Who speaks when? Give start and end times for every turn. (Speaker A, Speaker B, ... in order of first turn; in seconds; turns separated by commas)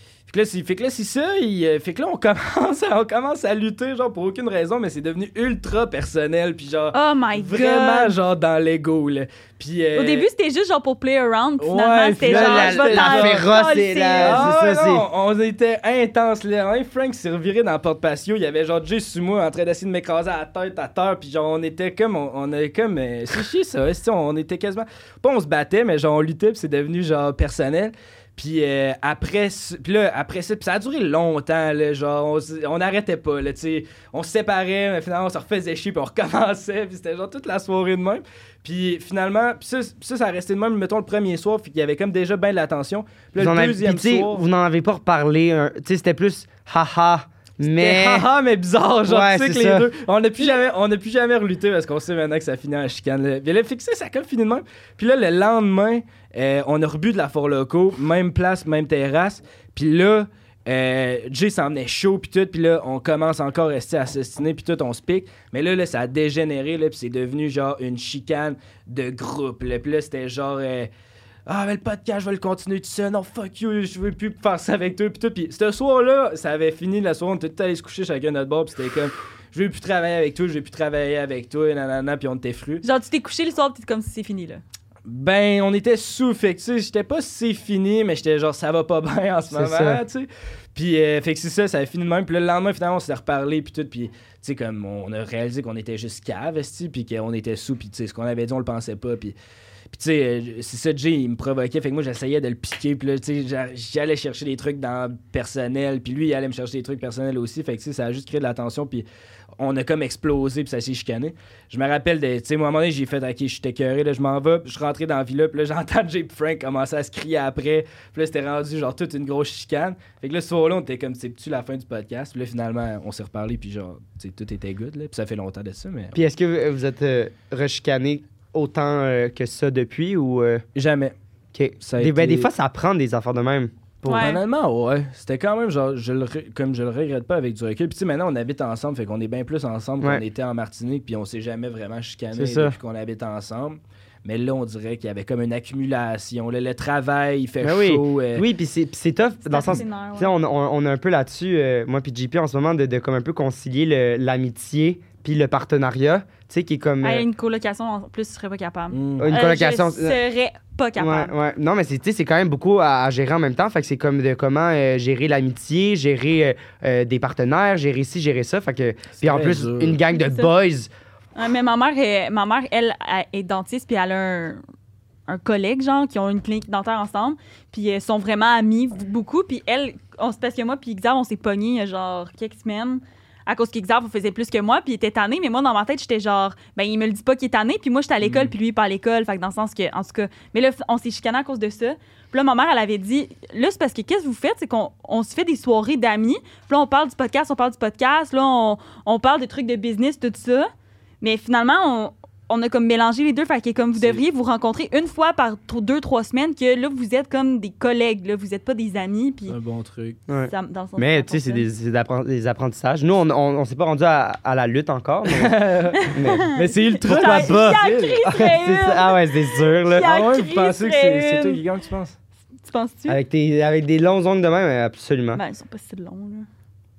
Speaker A: 0.3-10.3, Speaker B: 6.9-8.2, Speaker B: 9.9-14.5, Speaker A: 11.6-13.5, Speaker C: 12.2-15.1, Speaker A: 14.2-44.4, Speaker C: 43.4-48.3, Speaker A: 47.6-70.9, Speaker C: 49.1-49.9, Speaker A: 71.5-82.8, Speaker B: 82.8-84.6, Speaker A: 85.1-99.3, Speaker C: 89.5-90.0, Speaker A: 99.9-109.0, Speaker A: 109.6-126.2, Speaker C: 126.2-130.6, Speaker A: 130.8-131.2, Speaker C: 131.5-134.3, Speaker A: 131.8-132.5, Speaker B: 134.1-134.4, Speaker A: 134.1-148.5, Speaker C: 142.3-142.8, Speaker C: 147.6-157.3, Speaker B: 149.4-150.3, Speaker B: 157.0-161.3, Speaker A: 158.9-159.3, Speaker C: 159.2-160.2, Speaker C: 161.0-170.9, Speaker A: 169.2-170.0, Speaker B: 170.1-170.5, Speaker B: 171.4-174.6, Speaker B: 175.3-200.7, Speaker A: 188.2-188.5, Speaker B: 201.2-209.6, Speaker A: 204.0-204.2, Speaker A: 209.5-210.2, Speaker C: 210.3-215.6, Speaker B: 210.4-211.7, Speaker A: 215.3-218.2, Speaker B: 215.9-221.6, Speaker C: 216.1-220.1, Speaker A: 219.9-222.2, Speaker B: 222.7-223.2, Speaker C: 223.1-225.4, Speaker B: 225.3-226.5